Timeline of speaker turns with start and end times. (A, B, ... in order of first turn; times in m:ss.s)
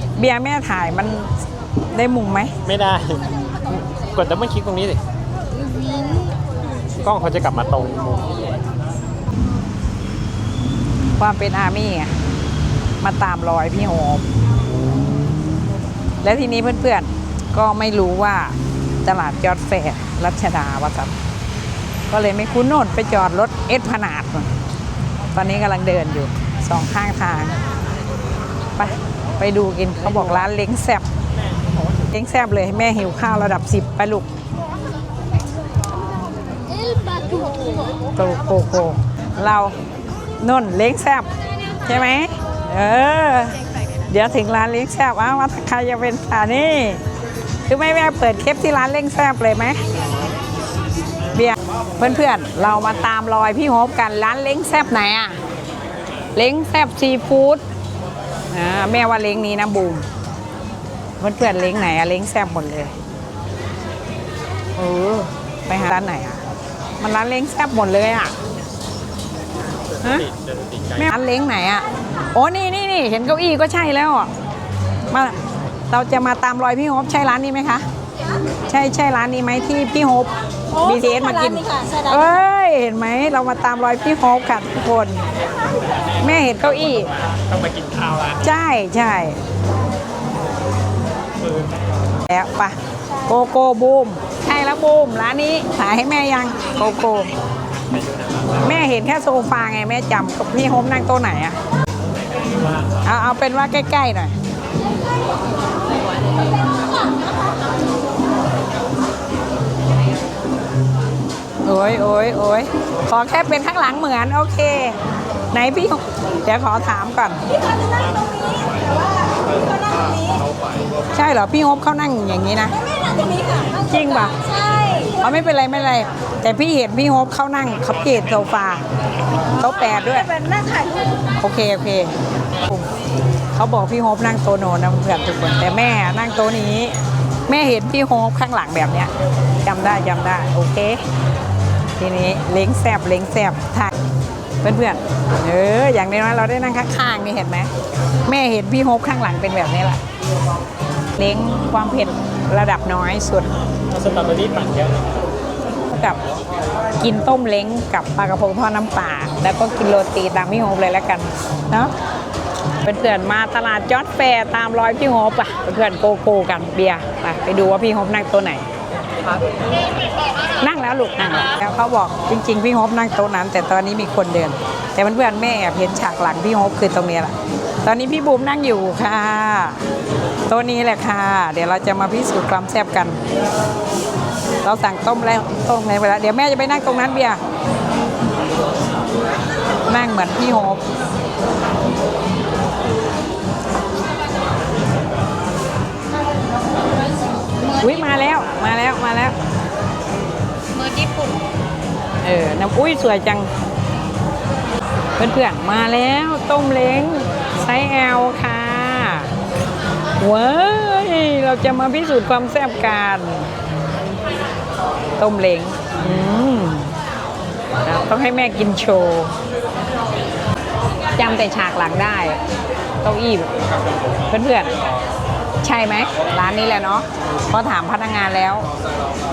0:00.2-0:01.3 A
0:01.9-0:02.5 A
0:02.6-0:05.0 B
0:05.5-0:06.4 C
0:06.9-0:08.7 B
0:11.2-0:12.1 A
0:13.0-0:14.2 A
0:16.2-0:21.1 A
0:22.1-0:24.5 A
0:25.3-0:27.5 A
0:28.8-0:31.0 A
0:32.1-0:34.3 A
0:36.5-0:38.1 C
0:38.2-0:39.8 A
0:40.4-0:41.3 A
0:41.8-0:43.6 A
0:44.1-0:47.0 A
0:47.7-0:49.8 A
0:50.0-0:50.4 B
0:51.3-0:55.4 A
0:56.3-0:57.6 A
0:58.5-1:00.1 A
1:01.2-1:02.9 A
1:04.8-1:06.4 A
1:07.0-1:08.4 A
1:09.8-1:11.1 B
1:10.0-1:10.3 A
1:11.0-1:14.3 A
1:15.1-1:15.4 A
1:15.9-1:17.8 A
1:18.7-1:25.2 A
1:20.7-1:22.2 C
1:26.1-1:28.6 B
1:26.2-1:27.1 A
1:28.4-1:29.4 A
1:31.4-1:32.0 B
1:32.3-1:37.3 A
1:37.8-1:38.8 B
1:38.6-1:41.6 A
1:42.3-1:43.0 B
1:43.0-1:44.3 A
1:51.6-1:55.0 A
1:55.5-1:57.4 A
2:00.1-2:00.7 B
2:01.1-2:02.7 A
2:03.2-2:03.7 C
2:03.9-2:04.4 A
2:04.5-2:05.1 C
2:05.2-2:08.9 A
2:09.6-2:10.3 A
2:10.3-2:11.0 C
2:11.4-2:12.1 A
2:13.6-2:19.1 A
2:19.6-2:21.0 A
2:22.0-2:23.9 A
2:24.6-2:27.7 A
2:28.2-2:30.0 A
2:31.2-2:33.5 A
2:33.9-2:35.2 B
2:35.9-2:36.2 A
2:37.0-2:41.9 A
2:42.8-2:48.6 A
2:50.6-2:59.8 A
3:00.5-3:03.2 A
3:04.6-3:07.4 A
3:09.9-3:10.8 A
3:17.6-3:18.2 C
3:17.8-3:19.3 A
3:20.7-3:21.4 C
3:22.2-3:23.5 A
3:25.2-3:29.3 A
3:30.2-3:33.5 A
3:35.2-3:36.9 A
3:37.8-3:39.3 A
3:41.2-3:42.4 A
3:43.0-3:43.6 A
3:44.3-3:44.7 A
3:45.6-3:48.7 A